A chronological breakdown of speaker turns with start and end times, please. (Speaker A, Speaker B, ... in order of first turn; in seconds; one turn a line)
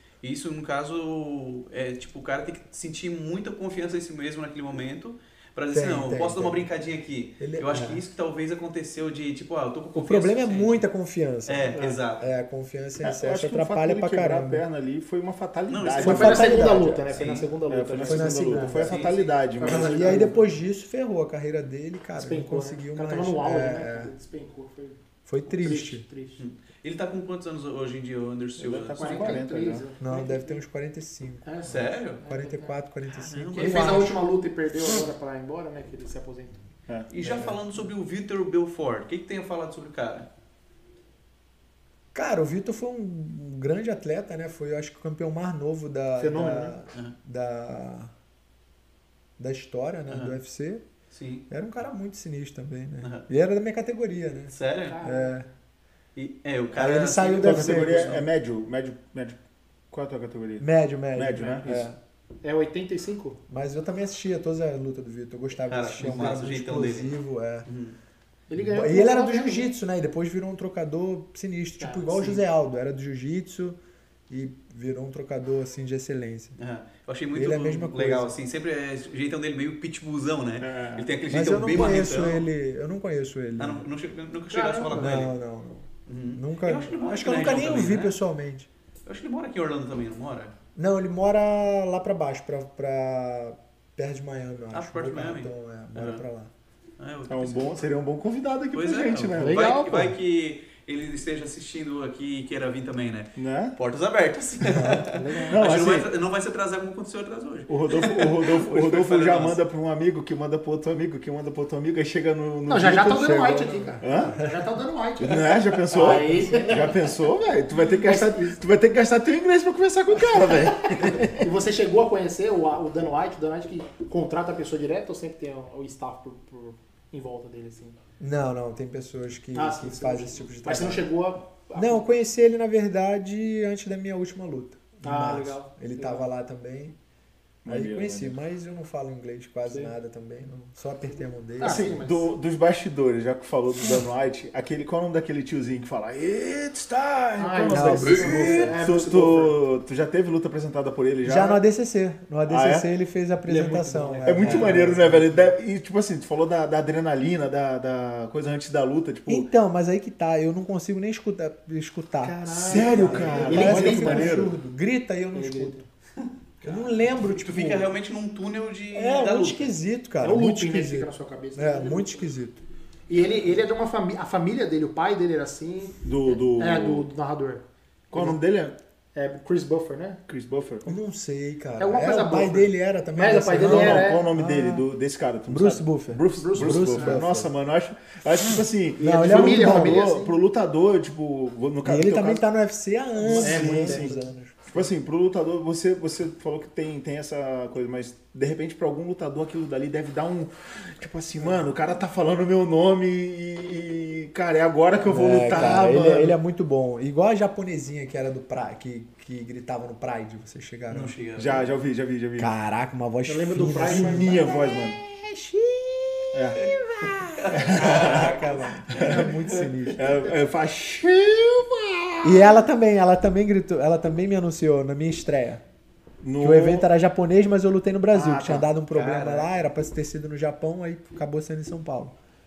Speaker A: 0.2-10.8
Speaker B: 5.7-6.7
Speaker B: 7.4-8.0
Speaker B: 9.9-14.6
Speaker A: 11.5-12.3
Speaker C: 13.0-16.7
Speaker A: 15.7-17.5
Speaker D: 16.0-20.5
Speaker B: 16.0-17.3
Speaker C: 17.7-20.3
Speaker B: 18.0-18.9
Speaker A: 18.8-19.4
Speaker B: 19.6-24.1
Speaker D: 22.2-25.0
Speaker B: 25.3-26.1
Speaker D: 25.5-26.4
Speaker A: 26.4-29.4
Speaker C: 28.6-29.9
Speaker D: 29.0-30.6
Speaker B: 30.0-31.6
Speaker D: 31.4-32.7
Speaker A: 31.6-32.2
Speaker B: 32.3-34.1
Speaker A: 33.1-34.1
Speaker D: 33.6-36.6
Speaker A: 37.1-40.3
Speaker B: 37.2-37.6
Speaker B: 42.1-48.1
Speaker D: 46.2-46.8
Speaker B: 49.4-50.8
Speaker A: 50.1-50.4
Speaker A: 51.1-51.5
Speaker B: 51.5-55.5
Speaker A: 54.5-55.0
Speaker D: 54.9-55.4
Speaker A: 56.1-58.3
Speaker B: 56.7-58.2
Speaker C: 57.4-59.4
Speaker C: 59.9-61.9
Speaker B: 60.6-62.0
Speaker D: 62.4-63.4
Speaker B: 63.5-67.7
Speaker A: 65.7-68.0
Speaker D: 68.5-69.7
Speaker B: 68.6-73.8
Speaker D: 71.8-72.4
Speaker B: 74.3-76.6
Speaker A: 76.6-82.5
Speaker B: 77.3-78.3
Speaker C: 80.6-81.1
Speaker B: 81.3-83.8
Speaker A: 83.6-85.3
Speaker D: 84.5-85.2
Speaker B: 84.9-88.7
Speaker A: 86.1-88.2
Speaker A: 89.1-90.5
Speaker B: 90.8-96.5
Speaker A: 94.7-96.2
Speaker A: 97.0-97.8
Speaker C: 97.3-100.1
Speaker A: 98.7-109.6
Speaker D: 99.3-99.9
Speaker C: 103.4-103.8
Speaker B: 104.7-105.1
Speaker D: 105.1-105.8
Speaker C: 105.5-106.1
Speaker C: 107.7-113.5
Speaker D: 112.7-117.1
Speaker B: 112.9-114.5
Speaker C: 114.0-114.4
Speaker C: 115.2-121.5
Speaker B: 116.0-116.8
Speaker D: 117.9-118.6
Speaker D: 120.3-128.0
Speaker B: 128.2-131.1
Speaker D: 129.5-132.0
Speaker B: 131.7-137.0
Speaker D: 135.0-136.2
Speaker C: 137.7-138.4
Speaker B: 137.7-142.0
Speaker D: 141.6-142.3
Speaker C: 141.6-151.6
Speaker D: 147.4-149.6
Speaker B: 147.7-148.8
Speaker A: 147.9-148.7
Speaker B: 151.2-155.5
Speaker C: 152.5-152.9
Speaker A: 153.5-154.9
Speaker C: 154.2-159.5
Speaker B: 159.3-165.8
Speaker D: 162.2-164.5
Speaker C: 162.4-164.5
Speaker A: 162.9-163.7
Speaker D: 165.3-165.9
Speaker A: 166.6-169.8
Speaker B: 166.6-167.9
Speaker B: 168.9-172.6
Speaker D: 170.2-172.3
Speaker D: 173.1-178.4
Speaker C: 176.0-177.1
Speaker C: 178.1-178.8
Speaker D: 179.2-180.2
Speaker C: 180.3-181.0
Speaker B: 180.8-184.9
Speaker D: 181.8-184.3
Speaker C: 183.6-192.4
Speaker B: 185.5-187.5
Speaker D: 186.4-187.2
Speaker B: 189.0-190.0
Speaker D: 189.0-190.3
Speaker B: 191.8-194.9
Speaker C: 193.2-194.2
Speaker D: 193.3-194.2
Speaker C: 194.7-206.4
Speaker B: 205.1-211.1
Speaker A: 210.9-211.7
Speaker C: 211.4-212.5
Speaker B: 212.4-220.2
Speaker D: 213.3-214.6
Speaker C: 213.6-215.0
Speaker C: 216.3-216.7
Speaker A: 217.2-219.6
Speaker C: 217.5-219.4
Speaker C: 219.9-222.6
Speaker B: 222.2-225.6
Speaker C: 226.2-226.9
Speaker B: 226.4-232.1
Speaker C: 228.2-228.7
Speaker A: 228.9-229.5